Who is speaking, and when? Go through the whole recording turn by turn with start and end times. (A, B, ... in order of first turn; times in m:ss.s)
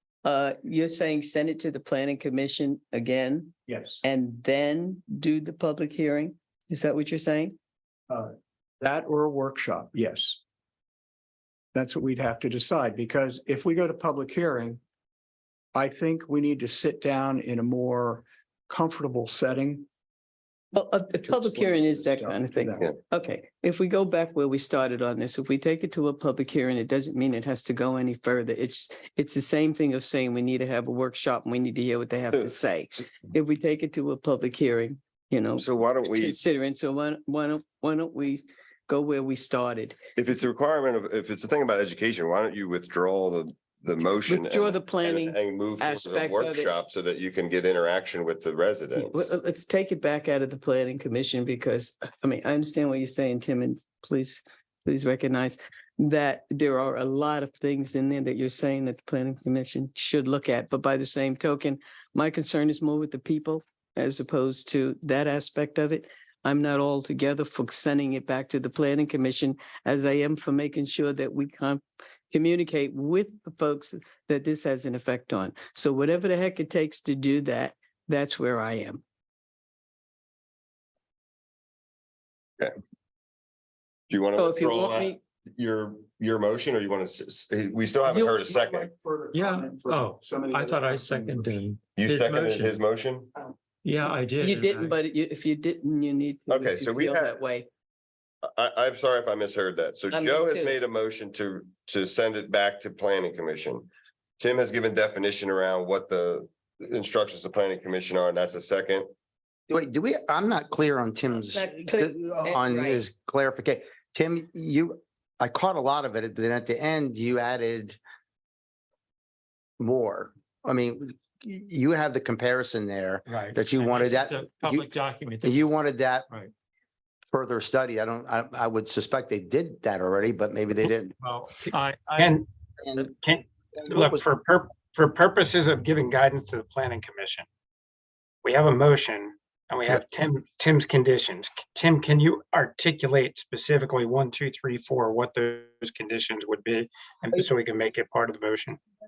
0:00.2-0:07.6 A
0:03.7-0:04.0 B
0:08.1-0:10.4 B
0:11.7-0:14.8 B
0:15.7-0:19.9 B
0:20.7-0:40.0 A
0:21.2-0:22.9 B
0:35.6-0:36.4 C
0:40.2-0:49.3 C
0:44.3-0:46.7 A
0:48.9-1:19.0 A
1:24.1-1:28.9 C
1:24.3-1:25.2 A
1:28.1-1:28.6 A
1:28.5-1:31.6 B
1:29.3-1:32.8 D
1:32.0-1:33.3 C
1:33.8-1:34.9 D
1:34.4-1:37.7 A
1:36.5-1:37.4 C
1:38.5-1:43.9 C
1:40.1-1:40.8 A
1:44.4-1:49.1 C
1:49.7-1:58.0 E
1:51.5-1:53.0 A
1:59.8-2:04.9 E
2:03.3-2:06.5 D
2:05.4-2:06.3 E
2:07.3-2:11.1 E
2:11.2-2:12.4 D
2:12.2-2:12.4 F
2:12.8-2:13.1 E
2:13.1-2:17.4 F
2:13.8-2:14.3 E
2:18.4-2:28.8 F